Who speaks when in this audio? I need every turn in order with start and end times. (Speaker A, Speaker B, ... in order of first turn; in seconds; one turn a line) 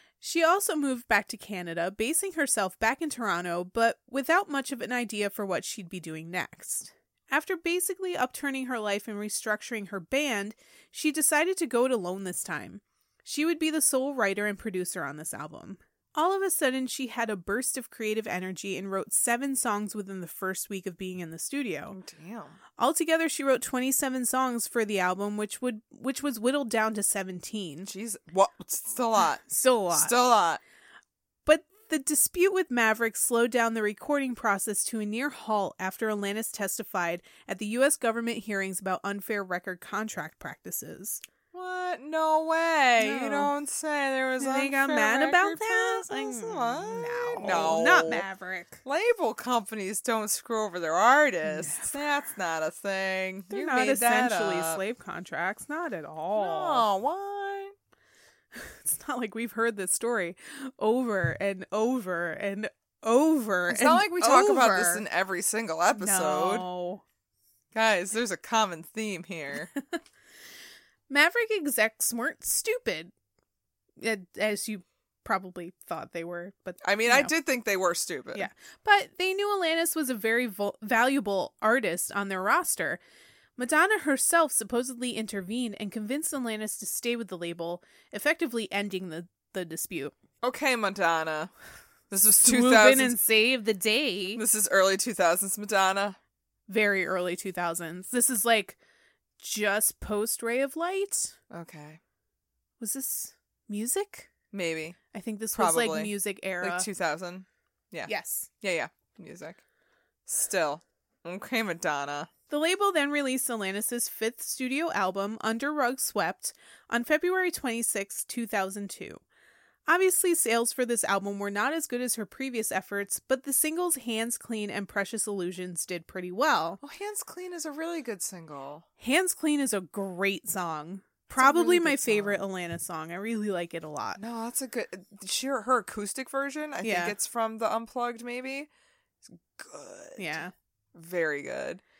Speaker A: 0.2-22.0
Speaker B: 21.9-22.6
Speaker A: 22.8-27.9
Speaker B: 27.8-30.6
Speaker A: 29.5-30.1
Speaker A: 31.4-41.2
Speaker B: 41.5-48.2
Speaker A: 43.0-43.5
Speaker A: 44.4-48.8
Speaker B: 48.8-54.8
Speaker A: 51.4-51.9
Speaker A: 53.5-56.9
Speaker B: 56.4-57.7
Speaker A: 58.5-65.0
Speaker B: 63.7-66.6
Speaker A: 65.9-67.0
Speaker B: 67.7-69.7
Speaker A: 71.1-73.1
Speaker A: 74.0-77.3
Speaker B: 76.8-78.5
Speaker A: 78.3-83.0
Speaker A: 83.6-90.1
Speaker B: 90.4-91.5
Speaker B: 92.1-93.2
Speaker A: 92.4-94.4
Speaker B: 94.3-96.2
Speaker A: 96.7-98.8
Speaker A: 99.4-101.3
Speaker B: 101.5-102.0
Speaker A: 102.8-104.3
Speaker B: 104.5-105.0
Speaker A: 105.1-106.9
Speaker B: 105.5-109.6
Speaker A: 108.1-108.5
Speaker B: 110.2-112.3
Speaker A: 112.5-119.2
Speaker A: 119.9-126.8
Speaker B: 126.8-128.8
Speaker A: 129.0-134.2
Speaker B: 131.3-132.4
Speaker B: 134.2-138.7
Speaker A: 136.8-137.1
Speaker B: 139.3-140.4
Speaker A: 140.2-140.5
Speaker B: 140.9-141.8